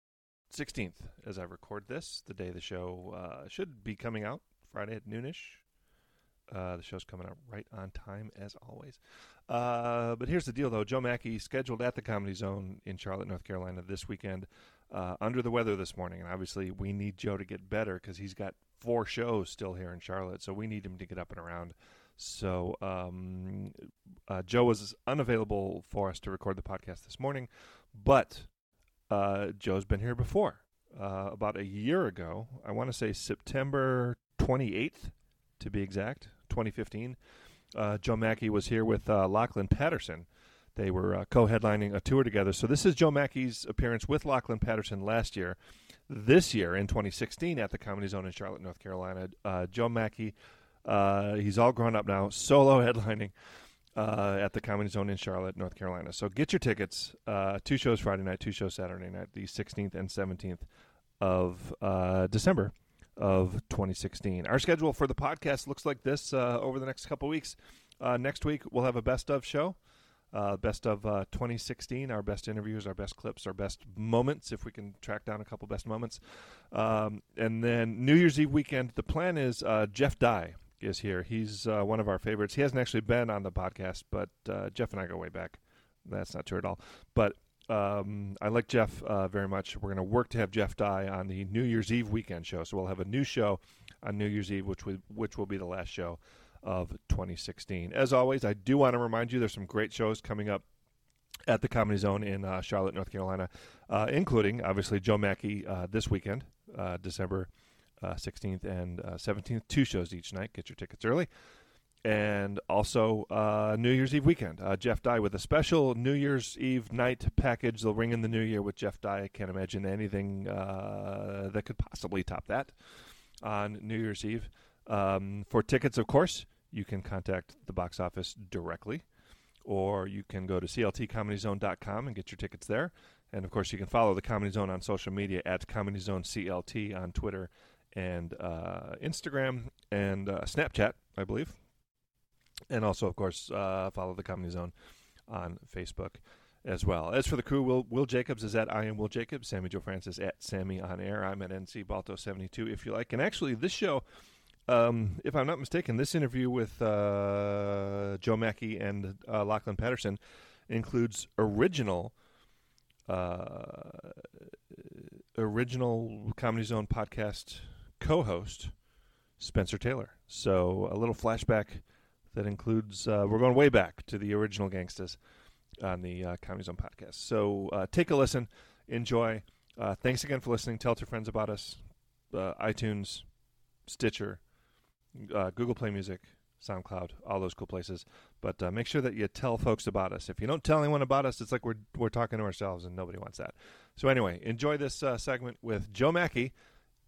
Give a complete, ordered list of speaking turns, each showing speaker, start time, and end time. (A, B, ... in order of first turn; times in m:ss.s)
0:00.5-0:05.6 A
0:06.5-0:23.7 A
0:24.3-0:28.4 A
0:29.1-0:37.2 A
0:37.7-0:45.6 A
0:46.1-0:50.3 A
0:50.8-0:53.3 A
0:54.0-1:00.6 A
1:01.2-1:09.8 A
1:10.3-1:16.2 A
1:16.7-1:40.6 A
1:41.5-1:47.5 A
1:48.0-1:51.3 A
1:52.0-2:02.7 A
2:03.4-2:09.0 A
2:09.6-2:21.6 A
2:22.7-2:24.7 A
2:25.3-2:34.0 A
2:34.7-2:42.1 A
2:43.1-2:44.1 A
2:45.3-2:48.7 A
2:49.4-2:55.2 A
2:55.8-3:01.8 A
3:02.3-3:03.2 A
3:03.9-3:04.4 A
3:05.2-3:16.5 A